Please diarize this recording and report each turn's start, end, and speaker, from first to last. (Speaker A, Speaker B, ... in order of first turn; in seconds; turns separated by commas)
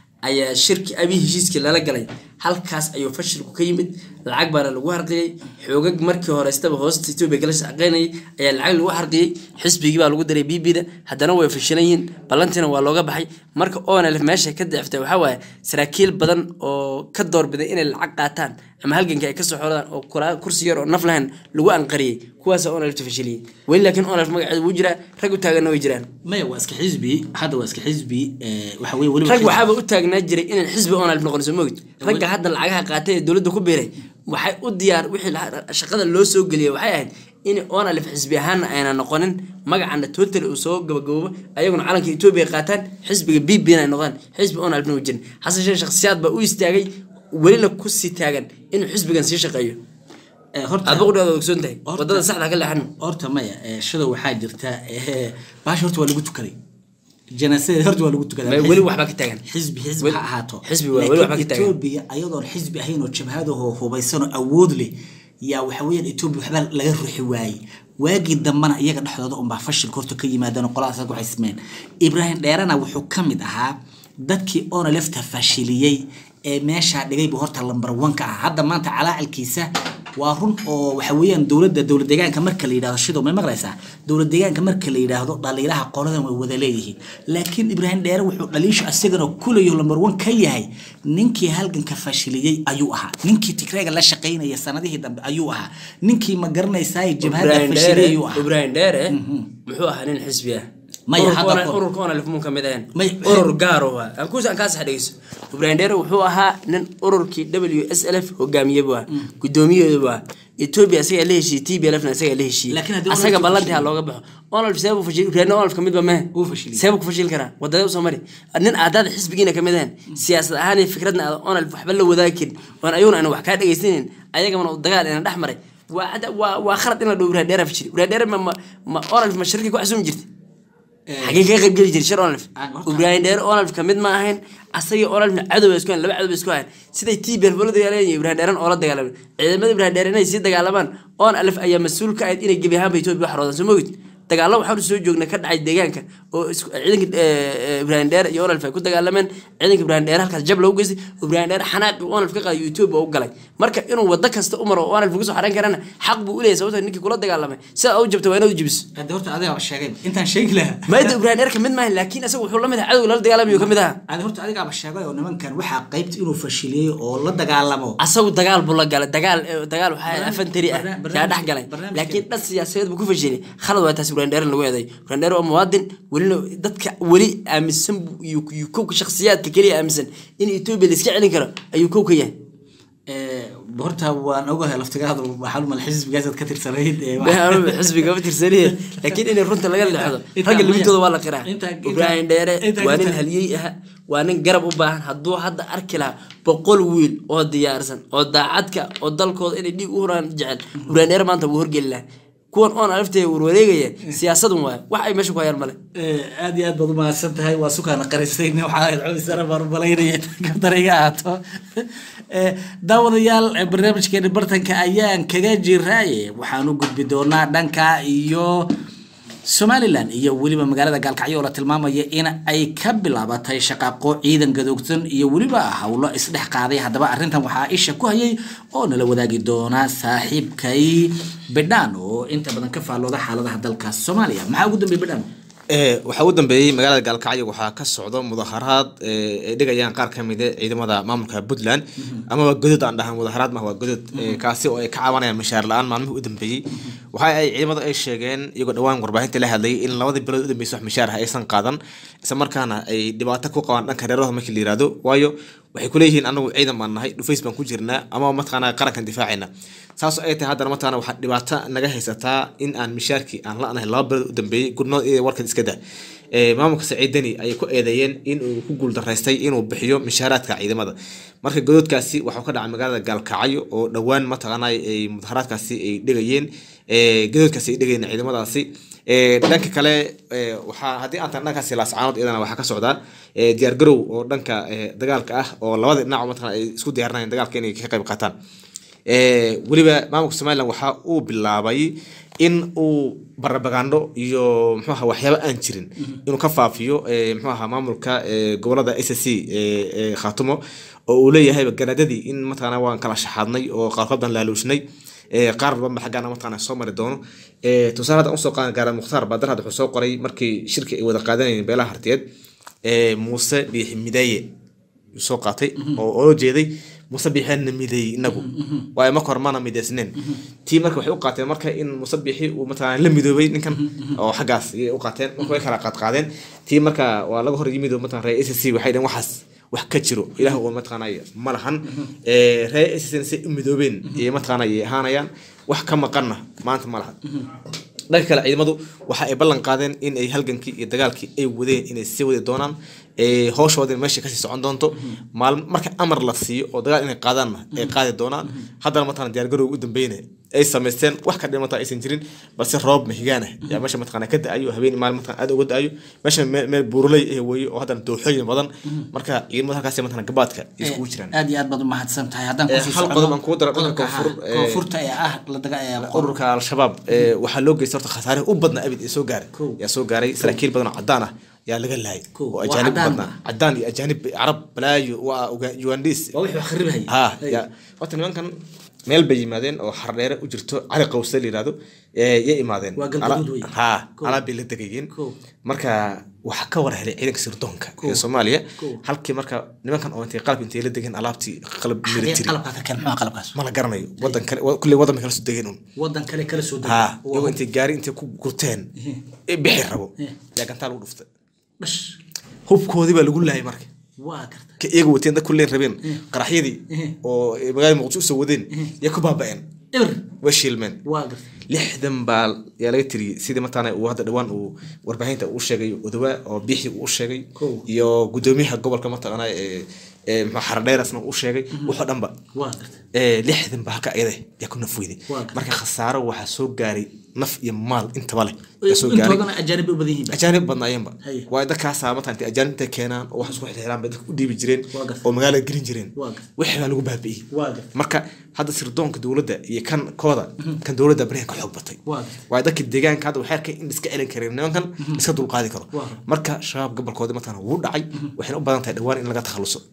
Speaker A: 0.2-26.1, Speaker B: 26.2-29.6, Speaker A: 29.2-49.8, Speaker B: 32.0-32.3, Speaker B: 50.5-51.1, Speaker A: 50.9-52.9, Speaker B: 51.9-52.2, Speaker B: 53.0-56.5, Speaker B: 57.4-58.8, Speaker A: 58.5-59.4, Speaker B: 59.5-64.9, Speaker A: 60.0-61.7, Speaker B: 65.4-98.5, Speaker A: 97.2-130.2, Speaker B: 99.1-99.5, Speaker B: 101.1-101.8, Speaker B: 102.9-103.5, Speaker B: 112.7-113.9, Speaker B: 116.3-116.8, Speaker B: 131.1-131.4, Speaker A: 131.2-158.8, Speaker B: 132.6-133.1, Speaker B: 158.9-161.2, Speaker A: 160.9-164.0, Speaker B: 163.5-168.0, Speaker A: 168.0-182.3, Speaker B: 170.1-172.2, Speaker B: 183.1-188.1, Speaker A: 187.2-205.8, Speaker B: 189.8-193.2, Speaker B: 205.9-218.7, Speaker B: 219.5-235.3, Speaker C: 235.7-265.8, Speaker C: 266.3-288.3, Speaker C: 289.1-291.9, Speaker C: 292.4-304.8, Speaker C: 305.3-312.2, Speaker C: 312.8-314.5, Speaker C: 315.1-337.2, Speaker B: 318.4-318.9, Speaker C: 338.1-361.3, Speaker B: 360.8-366.3, Speaker C: 362.7-364.8, Speaker C: 366.0-376.3, Speaker B: 372.3-373.3, Speaker B: 376.3-377.6, Speaker C: 377.1-378.5, Speaker C: 379.1-385.1, Speaker B: 383.0-384.4, Speaker C: 385.6-392.6, Speaker B: 388.8-389.0, Speaker B: 392.0-393.6, Speaker C: 393.5-395.8, Speaker B: 396.0-397.6, Speaker C: 396.8-398.9, Speaker C: 399.5-401.3, Speaker B: 401.8-402.1, Speaker C: 402.7-403.9, Speaker B: 404.2-404.8, Speaker C: 404.8-409.6, Speaker B: 409.9-410.2, Speaker C: 410.4-411.0, Speaker B: 411.0-411.5, Speaker C: 411.7-422.3, Speaker B: 417.6-417.8, Speaker B: 422.5-423.0, Speaker C: 423.1-429.5, Speaker B: 425.3-425.7, Speaker B: 428.8-430.4, Speaker C: 430.3-449.8, Speaker B: 431.2-431.5, Speaker B: 434.9-435.2, Speaker B: 436.1-436.5, Speaker B: 437.5-437.9, Speaker B: 442.1-442.4, Speaker B: 445.9-446.2